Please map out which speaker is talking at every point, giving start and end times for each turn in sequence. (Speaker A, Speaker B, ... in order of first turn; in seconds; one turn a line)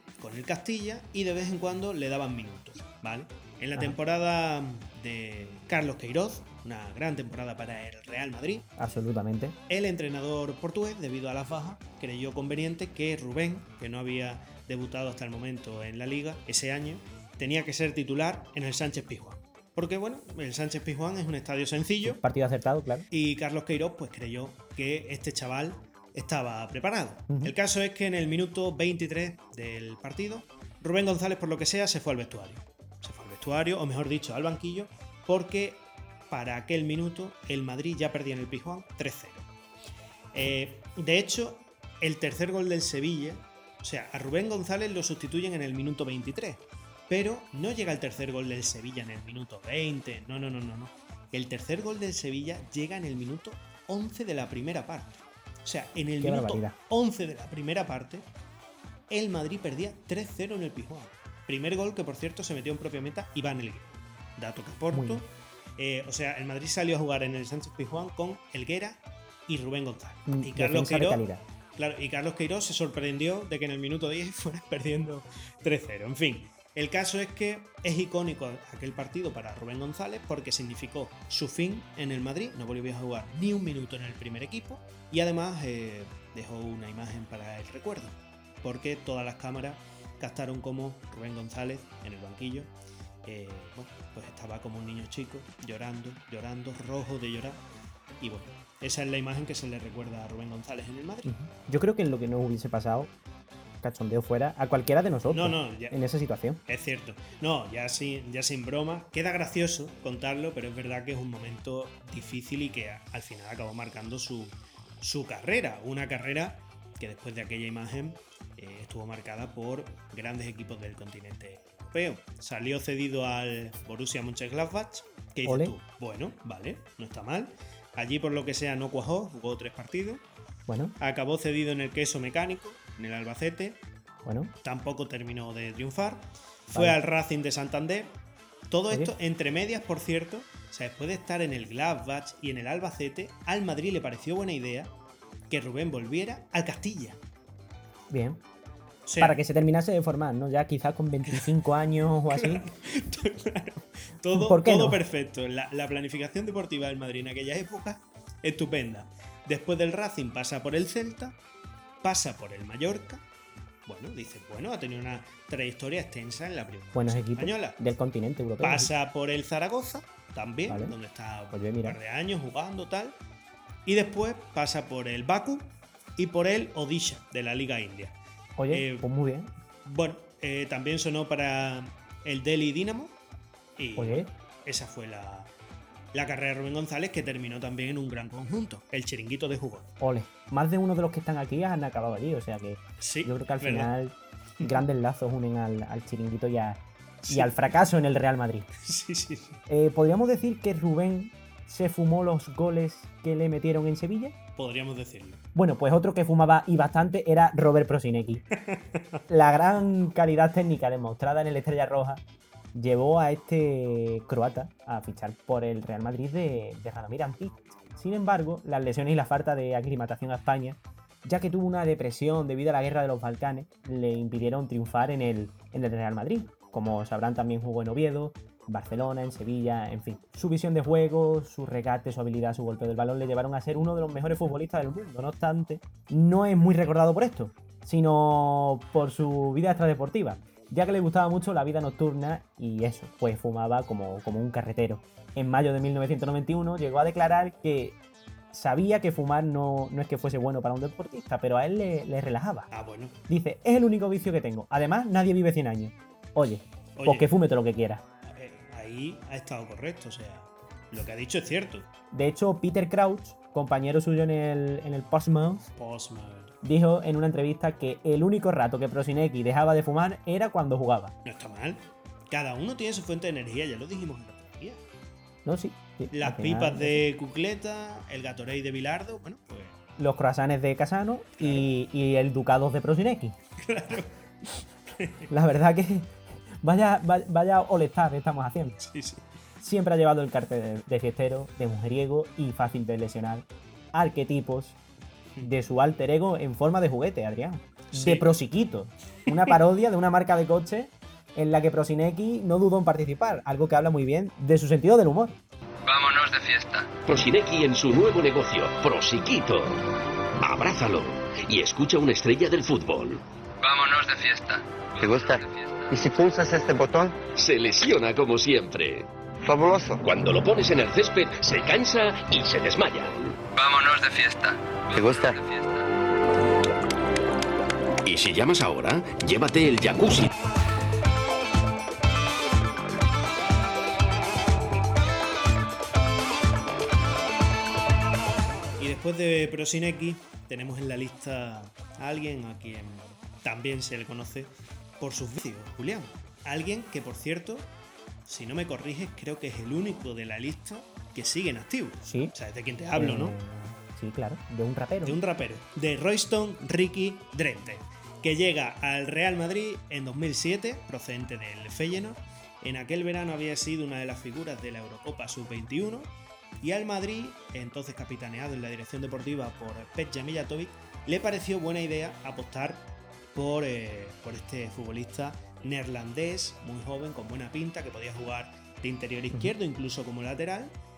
Speaker A: 0.2-8.7
Speaker B: 8.8-9.6
Speaker A: 9.7-22.2
Speaker B: 22.0-23.1
Speaker A: 23.1-39.5
Speaker B: 27.3-27.5
Speaker A: 40.3-58.2
Speaker B: 56.2-56.8
Speaker A: 59.1-71.2
Speaker B: 64.9-65.2
Speaker B: 70.3-71.4
Speaker A: 71.8-92.7
Speaker A: 93.2-97.6
Speaker A: 98.2-101.3
Speaker B: 101.2-103.1
Speaker B: 103.8-106.6
Speaker A: 105.3-106.0
Speaker A: 106.7-130.2
Speaker B: 125.5-125.8
Speaker B: 130.7-131.0
Speaker A: 131.0-133.8
Speaker B: 134.2-134.5
Speaker A: 134.6-138.2
Speaker A: 138.7-144.9
Speaker A: 145.5-147.2
Speaker B: 148.1-148.4
Speaker A: 149.1-149.4
Speaker B: 149.2-152.7
Speaker A: 152.3-161.3
Speaker B: 154.3-155.0
Speaker A: 162.0-163.2
Speaker A: 163.9-167.8
Speaker B: 166.9-168.9
Speaker A: 168.6-173.2
Speaker B: 170.7-170.9
Speaker B: 171.5-172.0
Speaker A: 173.9-178.2
Speaker B: 178.6-179.5
Speaker A: 178.7-179.1
Speaker A: 179.8-183.2
Speaker A: 183.8-185.5
Speaker B: 184.0-184.3
Speaker A: 186.1-189.9
Speaker B: 190.0-198.7
Speaker A: 193.0-193.9
Speaker A: 197.2-197.6
Speaker A: 198.8-199.6
Speaker B: 199.7-204.3
Speaker A: 204.6-205.4
Speaker B: 205.6-208.4
Speaker A: 208.6-209.2
Speaker B: 209.3-212.2
Speaker B: 212.7-248.0
Speaker B: 248.5-252.7
Speaker A: 252.7-253.2
Speaker B: 253.3-258.0
Speaker A: 257.0-257.3
Speaker A: 258.2-261.9
Speaker B: 262.1-265.7
Speaker A: 265.8-266.6
Speaker B: 266.6-271.1
Speaker A: 271.2-274.8
Speaker B: 275.4-277.0
Speaker A: 276.1-279.8
Speaker B: 280.0-283.4
Speaker A: 281.4-281.7
Speaker A: 283.6-284.2
Speaker A: 284.9-285.3
Speaker B: 285.3-288.8
Speaker A: 288.8-289.3
Speaker B: 289.6-294.8
Speaker B: 295.4-305.4
Speaker A: 297.9-298.3
Speaker C: 305.9-307.0
Speaker D: 307.1-309.8
Speaker D: 310.4-313.2
Speaker C: 313.6-316.0
Speaker E: 315.0-315.4
Speaker E: 315.9-317.2
Speaker D: 317.4-319.1
Speaker E: 319.4-320.1
Speaker D: 320.0-323.4
Speaker C: 323.5-325.9
Speaker E: 324.9-325.4
Speaker D: 328.1-330.3
Speaker A: 338.8-347.7
Speaker A: 348.3-353.4
Speaker B: 352.1-352.3
Speaker B: 353.0-355.2
Speaker A: 355.1-380.7